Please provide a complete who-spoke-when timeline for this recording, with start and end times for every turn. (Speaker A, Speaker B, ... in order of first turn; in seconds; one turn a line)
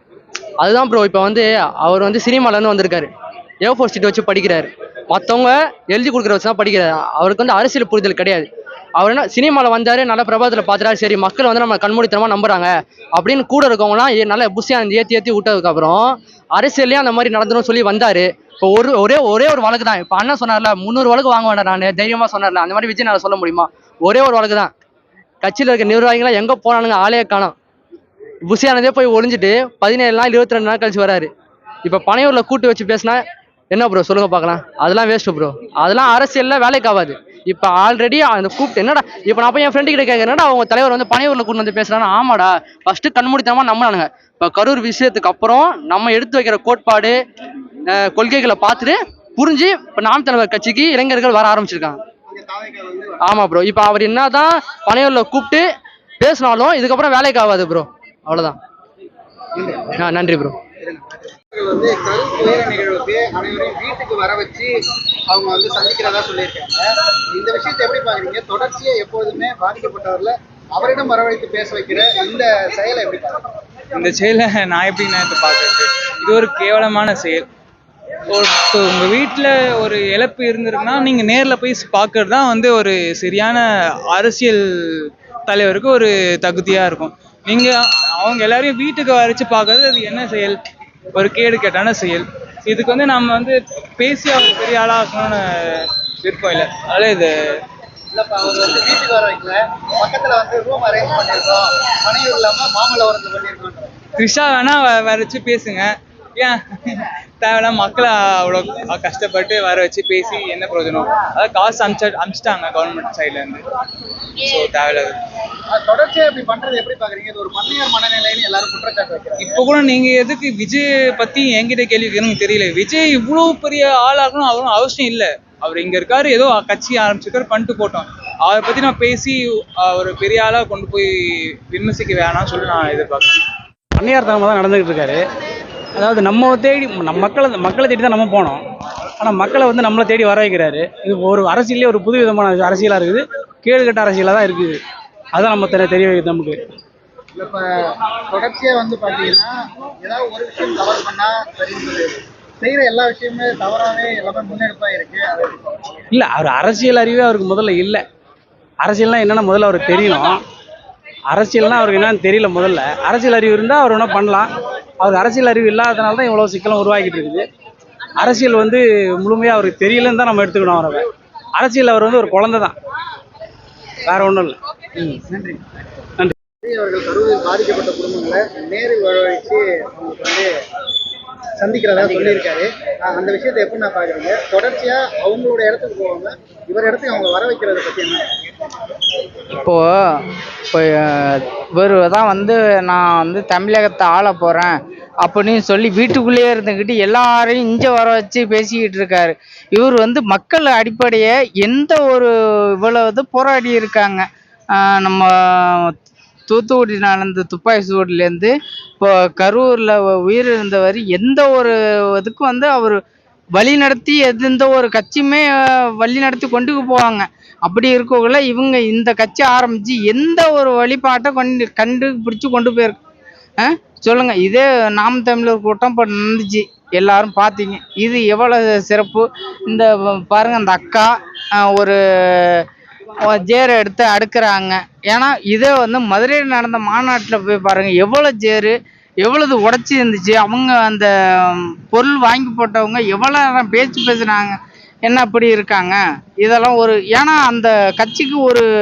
Speaker A: 0.6-3.1
Speaker A: 3.6-8.5
Speaker A: 9.0-24.7
Speaker A: 25.4-27.5
Speaker A: 28.5-31.3
Speaker A: 31.9-33.2
Speaker A: 33.7-47.2
Speaker A: 47.9-52.0
Speaker B: 52.3-53.2
Speaker A: 53.2-55.6
Speaker A: 56.2-58.6
Speaker B: 59.6-59.9
Speaker A: 60.0-60.6
Speaker B: 60.8-64.7
Speaker B: 65.3-73.4
Speaker C: 73.9-77.5
Speaker C: 78.3-90.6
Speaker C: 91.2-97.3
Speaker B: 98.1-103.9
Speaker C: 104.2-113.6
Speaker C: 114.4-115.2
Speaker B: 115.7-119.6
Speaker C: 119.4-133.3
Speaker D: 134.0-135.2
Speaker D: 136.0-138.6
Speaker D: 139.2-144.8
Speaker D: 145.3-146.6
Speaker B: 147.3-147.6
Speaker B: 148.3-155.7
Speaker D: 156.1-158.0
Speaker D: 158.8-160.4
Speaker D: 161.3-167.5
Speaker D: 168.2-172.8
Speaker D: 174.1-174.6
Speaker B: 175.1-175.6
Speaker B: 176.6-180.5
Speaker B: 181.6-188.2
Speaker E: 189.5-205.9
Speaker E: 206.5-213.0
Speaker E: 213.6-223.0
Speaker E: 223.6-232.7
Speaker E: 233.3-248.7